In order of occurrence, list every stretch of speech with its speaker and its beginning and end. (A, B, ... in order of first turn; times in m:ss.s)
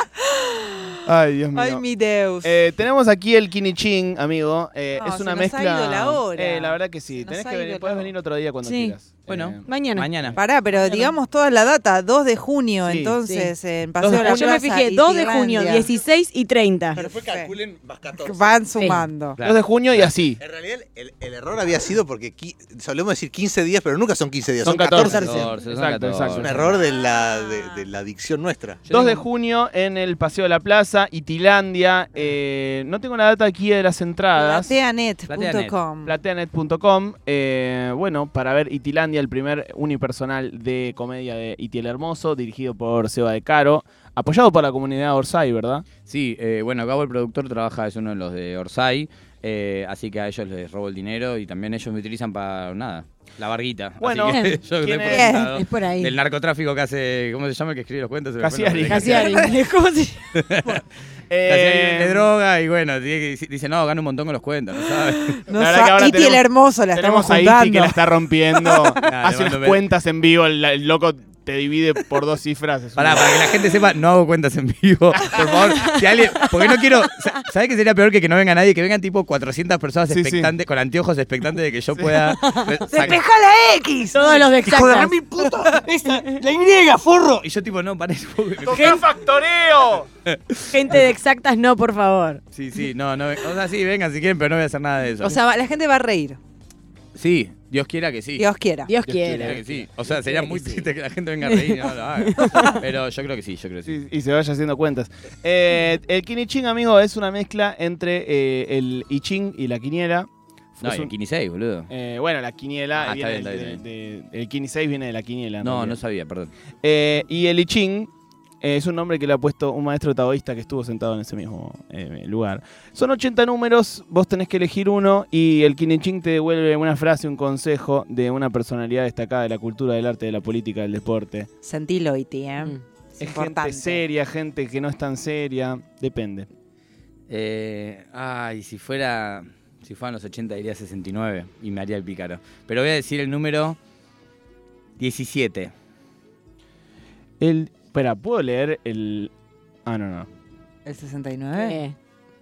0:00.2-0:01.0 A
0:01.0-0:01.8 B
0:01.5-0:02.5 A
0:02.4-0:09.6 B
0:05.0-0:08.1 A
0:08.6-0:08.9 A
0:09.3-0:10.4 C
0:09.6-0:10.1 D
0:10.4-0:15.9 A
0:10.9-0:11.1 D
0:12.8-0:13.2 B
0:13.2-0:17.0 D
0:14.0-0:14.4 C
0:16.9-0:17.5 A
0:17.0-0:18.7 E
0:18.1-0:19.4 A
0:18.7-0:19.1 D
0:19.4-0:20.4 B
0:20.4-0:25.6 E
0:24.6-0:26.8 B
0:25.0-0:26.8 C
0:26.3-0:28.8 E
0:26.8-0:27.8 A
0:28.8-0:29.2 C
0:28.9-0:34.7 B
0:34.4-0:36.1 A
0:35.3-0:35.8 C
0:36.0-0:45.8 B
0:46.1-0:59.4 C
0:54.0-0:55.5 B
0:54.2-0:54.6 D
0:55.0-0:55.5 A
0:55.5-0:56.1 D
0:58.4-0:59.5 B
0:58.9-1:00.4 D
1:00.3-1:00.8 C
1:00.6-1:02.3 B
1:01.4-1:05.4 C
1:05.4-1:08.0 A
1:05.5-1:13.6 B
1:09.0-1:09.8 C
1:13.0-1:23.2 C
1:15.2-1:15.6 B
1:15.6-1:16.8 D
1:20.1-1:20.5 B
1:21.9-1:22.3 B
1:22.4-1:23.1 D
1:22.9-1:24.5 A
1:24.1-1:25.2 D
1:24.6-1:29.0 C
1:25.4-1:25.8 A
1:26.0-1:26.4 D
1:28.6-1:30.1 B
1:28.7-1:29.0 D
1:30.2-1:31.0 C
1:30.7-1:32.4 D
1:32.5-1:35.4 C
1:35.2-1:36.4 A
1:37.1-1:38.5 C
1:38.4-1:38.9 A
1:38.8-1:39.6 D
1:39.0-1:40.9 B
1:39.3-1:44.0 C
1:41.4-1:42.8 D
1:43.9-1:50.3 B
1:50.8-1:51.1 B
1:50.8-1:51.9 C
1:51.9-1:56.0 B
1:53.0-1:53.8 C
1:55.6-1:56.5 C
1:56.8-2:11.5 B
2:11.6-2:14.0 A
2:13.2-2:16.5 B
2:17.3-2:23.8 C
2:25.0-2:25.7 C
2:27.4-2:29.3 B
2:29.8-2:30.3 B
2:30.8-2:31.8 A
2:31.5-2:32.0 D